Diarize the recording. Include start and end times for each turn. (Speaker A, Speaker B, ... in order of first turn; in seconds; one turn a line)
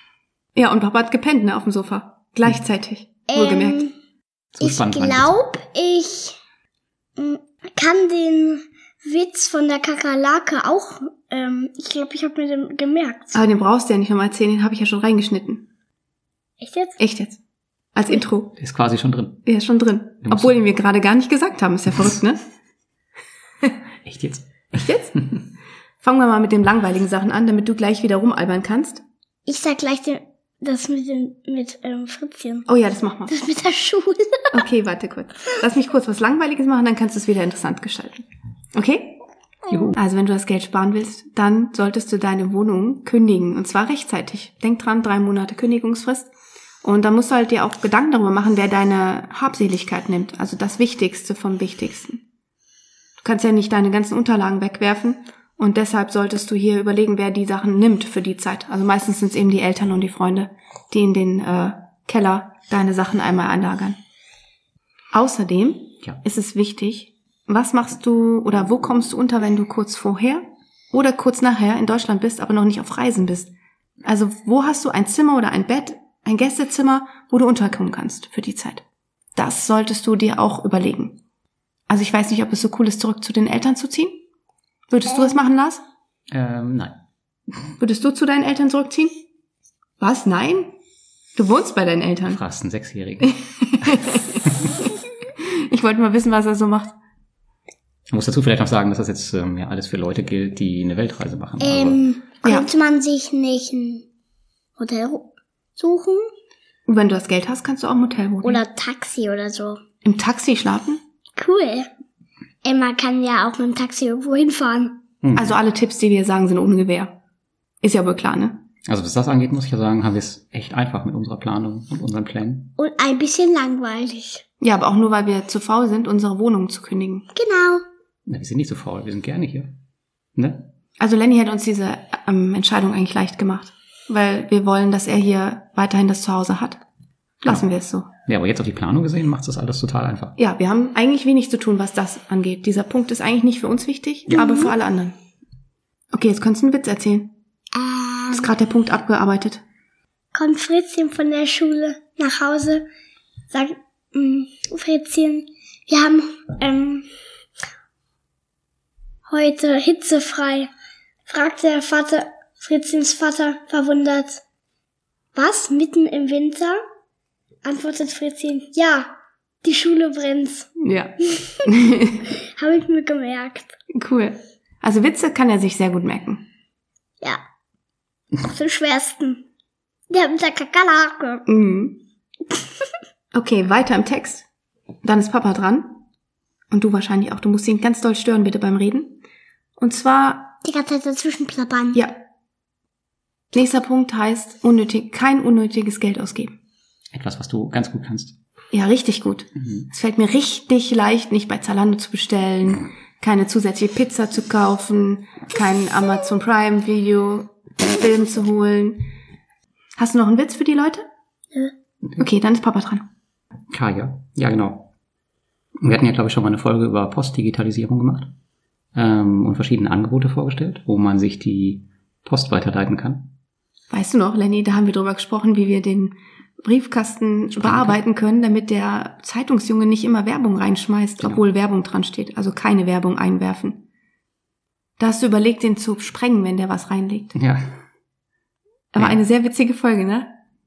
Speaker A: 0.6-3.9
Speaker B: 3.3-3.9
Speaker C: 4.6-5.3
Speaker B: 4.6-6.4
Speaker B: 7.2-13.4
Speaker A: 13.3-15.6
Speaker B: 16.6-17.0
Speaker A: 17.0-17.4
Speaker A: 17.9-18.6
Speaker C: 18.6-19.4
Speaker A: 19.4-22.4
Speaker C: 20.2-20.6
Speaker C: 24.1-25.4
Speaker A: 24.8-25.1
Speaker A: 26.0-29.0
Speaker B: 29.5-32.7
Speaker A: 32.7-33.4
Speaker B: 33.3-34.6
Speaker A: 34.5-39.2
Speaker C: 39.7-40.0
Speaker A: 39.9-46.3
Speaker A: 46.8-52.2
Speaker A: 53.2-64.0
Speaker A: 65.1-73.5
Speaker A: 74.0-78.8
Speaker A: 79.4-81.2
Speaker A: 81.9-84.2
Speaker A: 84.9-85.8
Speaker C: 86.3-87.0
Speaker A: 87.8-89.1
Speaker A: 90.0-90.7
Speaker A: 91.4-92.4
Speaker C: 92.3-93.3
Speaker A: 93.4-97.0
Speaker C: 98.1-102.0
Speaker B: 101.6-104.1
Speaker A: 102.4-102.7
Speaker B: 104.8-106.3
Speaker A: 106.9-108.6
Speaker B: 108.4-109.8
Speaker A: 110.0-111.0
Speaker B: 111.4-111.9
Speaker B: 112.6-115.0
Speaker C: 115.2-115.6
Speaker A: 115.3-117.1
Speaker A: 117.8-118.7
Speaker C: 118.9-122.7
Speaker B: 122.8-124.4
Speaker A: 124.6-127.3
Speaker B: 127.3-127.8
Speaker C: 128.3-129.7
Speaker C: 130.4-130.7
Speaker A: 131.0-136.8
Speaker A: 137.4-138.1
Speaker C: 138.3-140.3
Speaker A: 140.4-145.2
Speaker B: 144.3-144.7
Speaker A: 146.1-147.3
Speaker B: 147.8-148.5
Speaker A: 148.3-149.6
Speaker B: 150.3-152.9
Speaker B: 153.5-157.1
Speaker B: 159.3-160.7
Speaker B: 161.3-164.4
Speaker B: 165.3-166.8
Speaker B: 167.7-169.1
Speaker B: 169.6-170.7
Speaker A: 170.8-172.3
Speaker B: 172.6-173.7
Speaker A: 173.9-176.4
Speaker B: 178.4-179.4
Speaker B: 180.1-181.4
Speaker A: 181.5-182.0
Speaker A: 183.3-184.5
Speaker A: 185.0-186.0
Speaker A: 186.7-189.2
Speaker A: 189.8-190.6
Speaker B: 190.6-192.0
Speaker A: 193.5-196.6
Speaker C: 197.1-198.3
Speaker A: 198.7-209.0
Speaker C: 199.6-199.9
Speaker A: 210.0-211.1
Speaker A: 212.2-213.1
Speaker C: 213.7-214.9
Speaker C: 215.8-218.3
Speaker C: 218.9-223.3
Speaker A: 223.9-233.8
Speaker C: 227.5-228.0
Speaker A: 235.0-237.4
Speaker C: 237.4-237.6
Speaker A: 238.9-240.3